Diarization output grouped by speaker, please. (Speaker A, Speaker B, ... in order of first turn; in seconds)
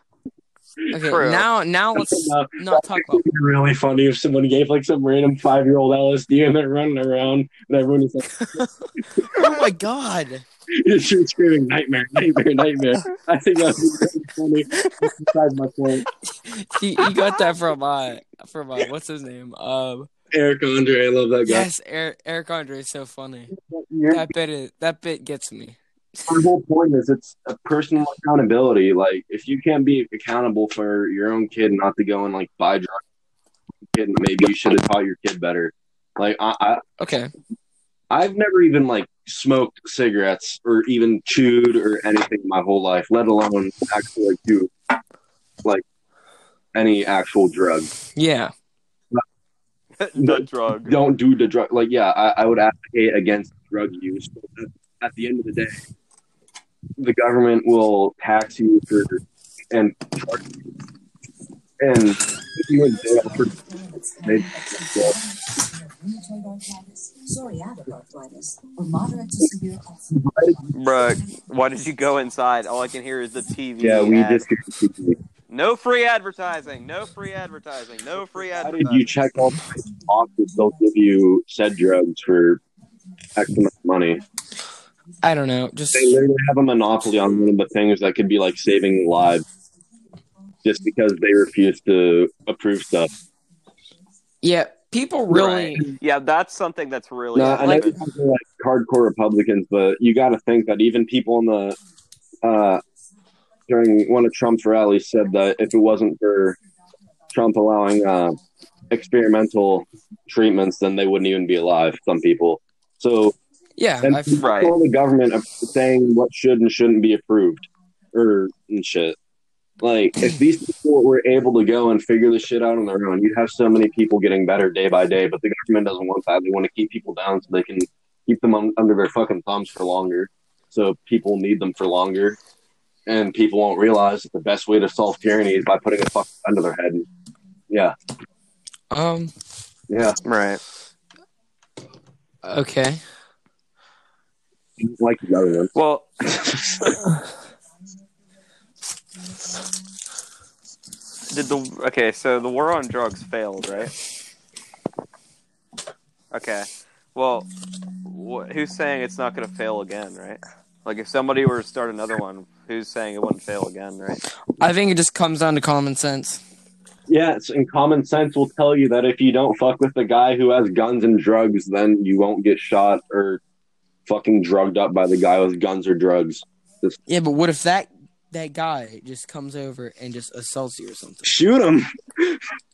Speaker A: 0.9-3.2, 8.3-10.4, 16.3-20.1, 21.4-23.5, 24.1-25.8, 37.0-37.3, 48.1-48.5, 85.2-86.2, 94.4-95.9, 113.8-114.5, 138.9-139.3, 142.4-143.0, 164.6-166.4, 177.1-181.3
Speaker B: 1.0-1.5, 50.0-50.9, 70.7-74.5, 75.5-79.2, 95.3-98.0, 114.4-114.8, 140.2-140.6, 145.8-146.1, 151.3-153.9, 156.3-157.5, 158.1-164.2
Speaker C: 2.0-9.5, 10.7-16.1, 20.3-21.7, 23.5-24.3, 26.3-33.0, 33.9-36.8, 38.1-44.7, 46.7-47.9, 50.2-55.8, 57.0-60.5, 61.8-63.5, 64.2-65.2, 70.1-70.6, 73.8-75.2, 78.6-82.6, 83.4-84.2, 85.9-89.5, 90.6-93.1, 97.3-101.8, 102.4-102.8, 103.7-106.6, 107.3-113.3, 114.0-119.2, 119.8-132.4, 133.1-137.1, 137.7-137.9, 139.9-140.2, 144.8-147.0, 167.1-173.4, 174.1-177.0, 181.2-182.4
Speaker D: 63.0-70.7